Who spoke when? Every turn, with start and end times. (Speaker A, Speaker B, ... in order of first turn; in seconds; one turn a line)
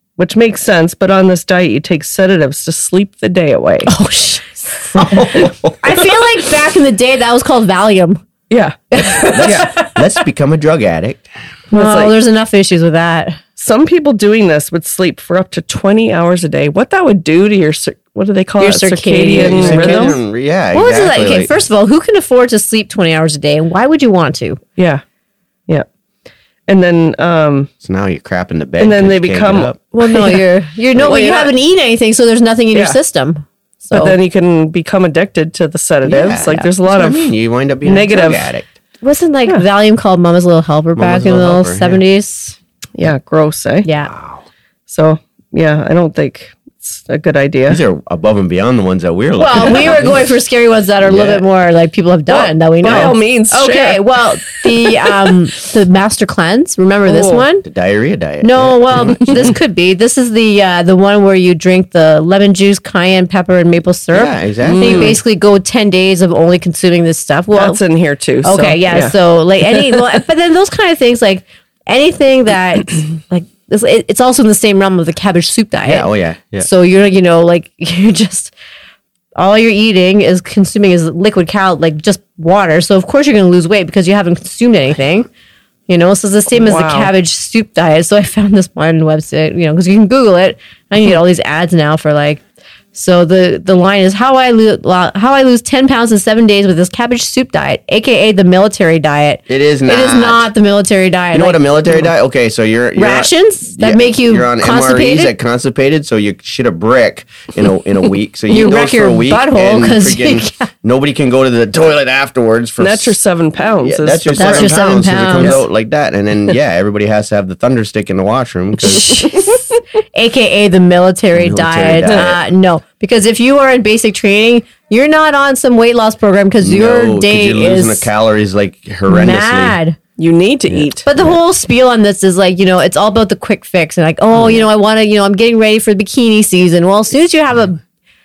Speaker A: 0.2-3.9
Speaker B: 3.9-8.2
Speaker C: 5.0-6.0
Speaker A: 8.5-8.8
Speaker B: 8.9-10.0
Speaker C: 9.2-11.3
Speaker A: 9.4-9.7
Speaker B: 11.7-13.4
Speaker A: 11.7-12.2
Speaker A: 13.6-20.2
Speaker B: 18.6-20.2
Speaker C: 19.4-21.5
Speaker B: 20.7-24.6
Speaker A: 24.8-25.0
Speaker A: 26.7-27.7
Speaker C: 27.8-29.8
Speaker A: 28.8-30.4
Speaker B: 29.9-34.2
Speaker A: 31.0-31.5
Speaker A: 33.9-38.5
Speaker C: 36.0-38.7
Speaker B: 39.0-42.6
Speaker C: 41.0-42.0
Speaker A: 43.0-43.9
Speaker B: 43.8-44.1
Speaker C: 44.0-44.5
Speaker A: 44.9-47.8
Speaker C: 47.7-50.3
Speaker B: 49.4-57.7
Speaker C: 51.0-51.5
Speaker A: 52.3-55.4
Speaker C: 52.8-53.2
Speaker A: 57.1-57.5
Speaker C: 57.6-59.5
Speaker B: 58.4-67.8
Speaker C: 64.1-65.2
Speaker A: 64.6-65.2
Speaker A: 67.5-69.2
Speaker B: 68.4-78.5
Speaker A: 69.7-70.0
Speaker C: 75.8-76.7
Speaker B: 79.3-85.3
Speaker B: 85.9-92.4
Speaker A: 86.5-87.1
Speaker B: 92.9-102.1
Speaker C: 99.5-100.5
Speaker C: 101.3-119.4
Speaker B: 103.0-105.3
Speaker B: 108.5-110.7
Speaker A: 112.8-114.8
Speaker B: 114.4-115.7
Speaker B: 118.8-128.1
Speaker C: 121.3-122.5
Speaker C: 126.6-129.8
Speaker B: 129.1-130.0
Speaker A: 130.2-131.1
Speaker C: 130.7-131.4
Speaker B: 131.1-137.8
Speaker C: 134.3-134.7